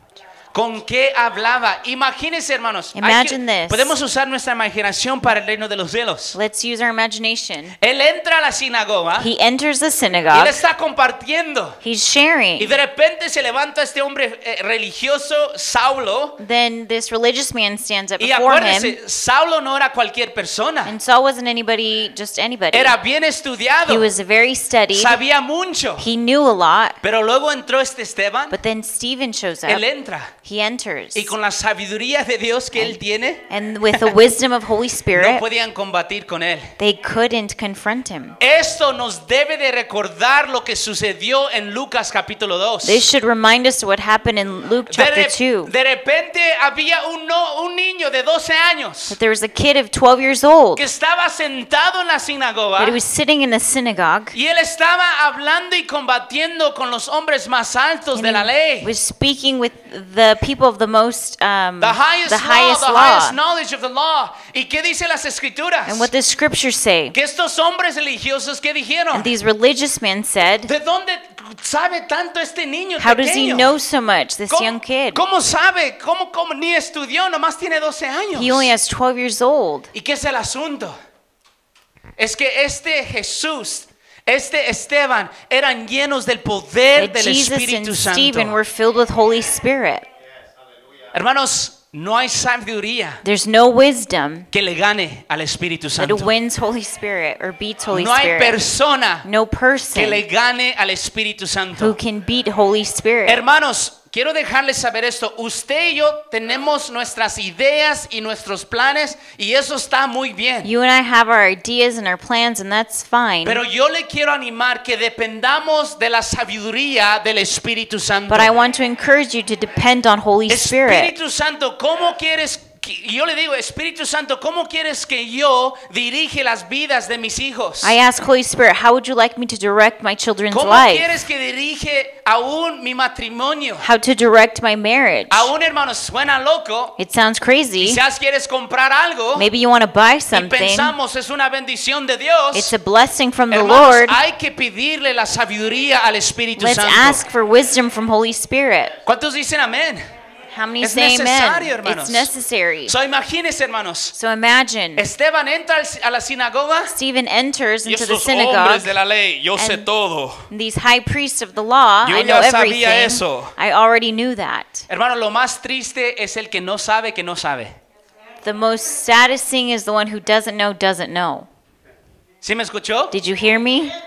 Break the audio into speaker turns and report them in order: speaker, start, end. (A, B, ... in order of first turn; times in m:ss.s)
0:00.5-0:06.4 A
0:02.9-0:04.0 B
0:06.3-0:07.8 B
0:07.8-0:09.3 A
0:09.2-0:10.6 B
0:10.3-0:11.8 A
0:11.8-0:12.7 B
0:12.6-0:16.4 A
0:16.4-0:19.0 B
0:18.2-0:20.9 A
0:20.8-0:22.9 B
0:22.7-0:24.1 A
0:23.8-0:25.2 B
0:24.9-0:26.1 A
0:26.0-0:27.0 B
0:27.0-0:28.6 A
0:28.5-0:29.8 B
0:29.6-0:30.3 A
0:30.4-0:31.3 B
0:31.1-0:33.4 A
0:33.5-0:35.4 B
0:35.1-0:36.7 A
0:36.8-0:38.4 B
0:38.4-0:43.0 A
0:42.8-0:45.7 B
0:44.9-0:49.2 A
0:49.1-0:50.8 B
0:50.7-0:53.0 A
0:52.8-0:54.4 B
0:54.3-0:58.9 A
0:58.1-1:03.4 B
1:01.8-1:06.1 A
1:05.8-1:07.2 B
1:07.1-1:09.3 A
1:09.1-1:10.7 B
1:10.6-1:13.7 A
1:13.0-1:15.2 B
1:14.5-1:18.7 A
1:18.3-1:19.9 B
1:19.9-1:21.0 A
1:22.2-1:28.6 A
1:27.0-1:30.0 B
1:31.1-1:33.2 A
1:33.2-1:34.5 B
1:34.5-1:36.3 A
1:36.0-1:38.6 B
1:37.9-1:39.3 A
1:39.2-1:40.2 B
1:39.9-1:42.0 A
1:41.8-1:43.4 B
1:43.2-1:50.7 A
1:50.6-1:53.6 B
1:53.4-1:58.5 A
1:58.3-2:01.1 B
2:00.5-2:08.0 A
2:07.8-2:11.2 B
2:10.5-2:13.9 A
2:13.8-2:15.5 B
2:15.3-2:17.0 A
2:17.0-2:18.0 B
2:17.8-2:19.5 A
2:19.4-2:21.0 B
2:20.3-2:22.7 A
2:22.5-2:24.2 B
2:23.5-2:27.3 A
2:26.6-2:29.0 B
2:29.0-2:30.1 A
2:30.5-2:32.9 B
2:30.8-2:32.3 A
2:32.8-2:34.1 A
2:34.1-2:35.0 B
2:35.0-2:36.9 A
2:36.9-2:39.0 B
2:37.8-2:40.4 A
2:39.5-2:39.9 B
2:40.5-2:44.9 B
2:42.0-2:43.5 A
2:44.9-2:47.8 A
2:48.4-2:51.5 B
2:52.4-2:53.1 A
2:53.1-2:53.9 B